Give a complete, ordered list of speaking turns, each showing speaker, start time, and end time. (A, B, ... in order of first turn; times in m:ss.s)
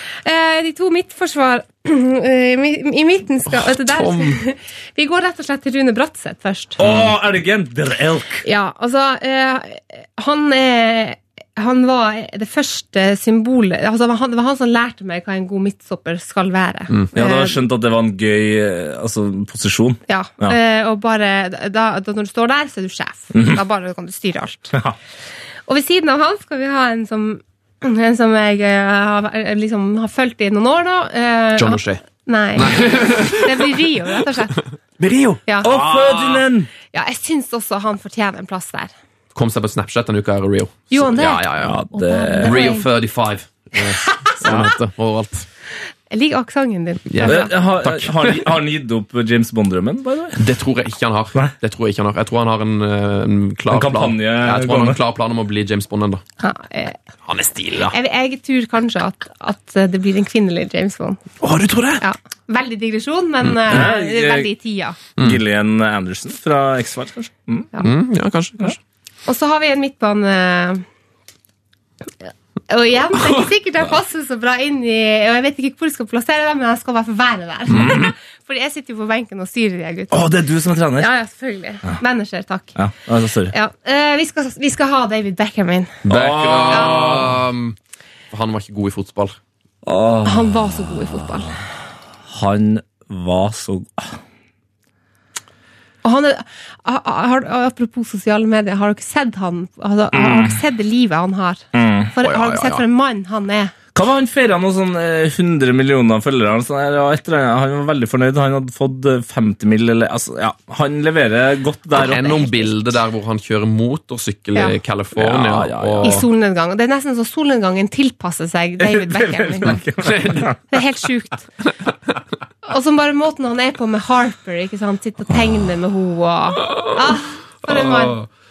0:00.2-0:06.8 A
0:03.5-0:04.4 B
0:06.8-0:08.4 C
0:06.8-0:07.1 B
0:08.4-0:17.6 A
0:17.1-0:20.6 C
0:20.1-0:24.8 A
0:23.3-0:23.6 C
0:25.7-0:34.6 A
0:31.6-0:32.0 B
0:32.6-0:33.8 B
0:35.0-0:36.4 B
0:35.6-0:36.7 C
0:36.9-0:38.9 A
0:39.3-0:41.8 B
0:40.9-0:42.9 A
0:41.6-0:42.7 C
0:42.4-0:45.5 B
0:44.4-0:44.7 C
0:46.1-0:47.5 A
0:47.1-0:48.5 B
0:47.2-0:50.4 C
0:50.4-0:56.2 B
0:53.7-0:55.0 C
0:56.4-0:57.0 A
0:57.3-0:57.9 B
0:57.9-1:01.2 A
1:01.4-1:02.0 B
1:02.0-1:05.0 A
1:03.7-1:04.5 C
1:05.2-1:07.7 C
1:07.8-1:08.8 B
1:09.2-1:10.8 A
1:12.2-1:20.3 A
1:17.7-1:18.1 C
1:20.1-1:21.1 C
1:21.0-1:22.8 A
1:22.7-1:23.5 C
1:23.5-1:26.0 A
1:26.0-1:27.8 B
1:26.1-1:27.4 C
1:26.7-1:27.2 A
1:28.3-1:29.4 B
1:29.8-1:31.4 C
1:30.2-1:31.6 A
1:32.3-1:34.2 C
1:36.0-1:43.7 A
1:40.1-1:40.6 C
1:41.7-1:42.1 C
1:42.2-1:42.8 B
1:43.9-1:52.7 C
1:51.9-1:56.2 B
1:55.2-1:56.2 C
1:56.0-1:59.8 A
1:58.8-2:00.6 C
2:00.0-2:00.5 B
2:00.7-2:01.5 A
2:02.6-2:08.2 A
2:07.7-2:08.2 B